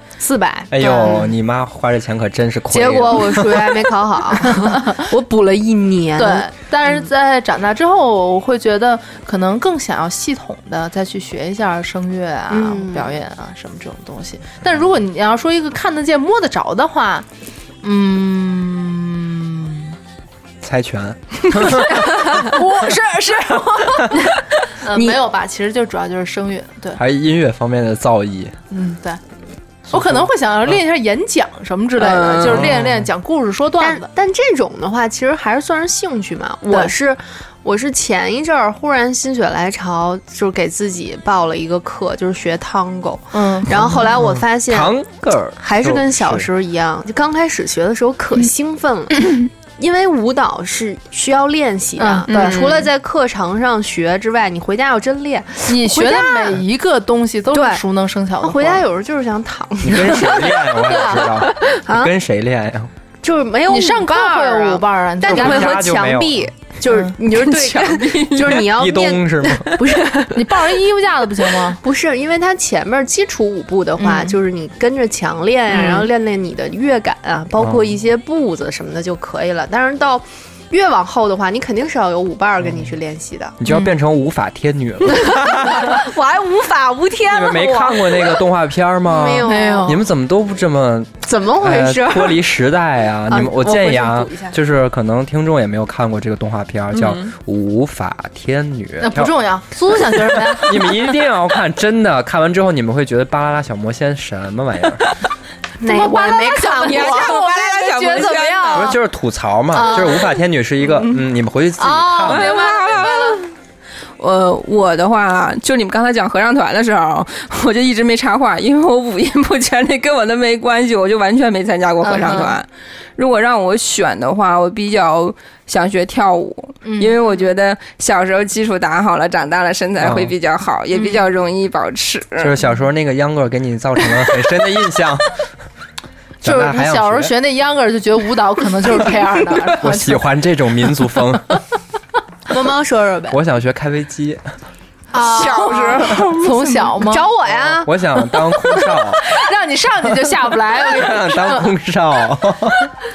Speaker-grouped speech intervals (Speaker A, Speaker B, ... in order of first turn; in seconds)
Speaker A: 0.2-1.4, 2.7-6.5, 12.5-13.2, 24.9-25.2, 33.8-44.9, 45.6-56.6, 57.5-57.8, 58.4-62.1, 63.2-70.8, 71.7-83.6, 85.1-88.5, 89.1-90.0, 91.2-92.5, 93.3-94.6, 105.8-108.8, 109.8-110.2, 142.5-143.4, 145.2-146.1, 147.0-148.1
Speaker B: 0.7-3.9, 20.6-22.4, 27.0-28.6, 29.9-30.3, 32.5-33.1, 44.2-46.5, 59.8-62.9, 65.3-66.5, 68.5-69.7, 77.6-77.9, 83.6-86.0, 87.3-99.3, 100.4-105.1, 108.8-112.6, 130.0-130.3, 132.4-135.4, 136.4-137.3, 139.8-141.6, 143.3-144.4, 147.5-149.2, 150.8-152.9
Speaker C: 4.4-5.1, 6.2-17.3, 17.8-20.0, 21.7-27.0, 28.7-29.2, 29.9-34.1, 36.7-36.9, 43.3-44.2, 52.0-52.9, 55.7-58.8, 60.9-61.3, 63.7-65.7, 66.9-67.2, 70.3-71.8, 74.0-74.4, 75.8-76.0, 83.7-84.0, 89.5-90.0, 99.0-101.0, 105.8-109.0, 109.8-110.1, 112.0-113.4, 122.0-122.6, 126.8-127.2, 136.4-140.2, 145.1-147.3, 149.2-151.7
Speaker D: 32.0-32.5, 52.3-52.8, 67.4-68.6, 97.0-97.3, 106.7-108.9, 112.3-113.5, 114.2-132.5, 145.2-146.9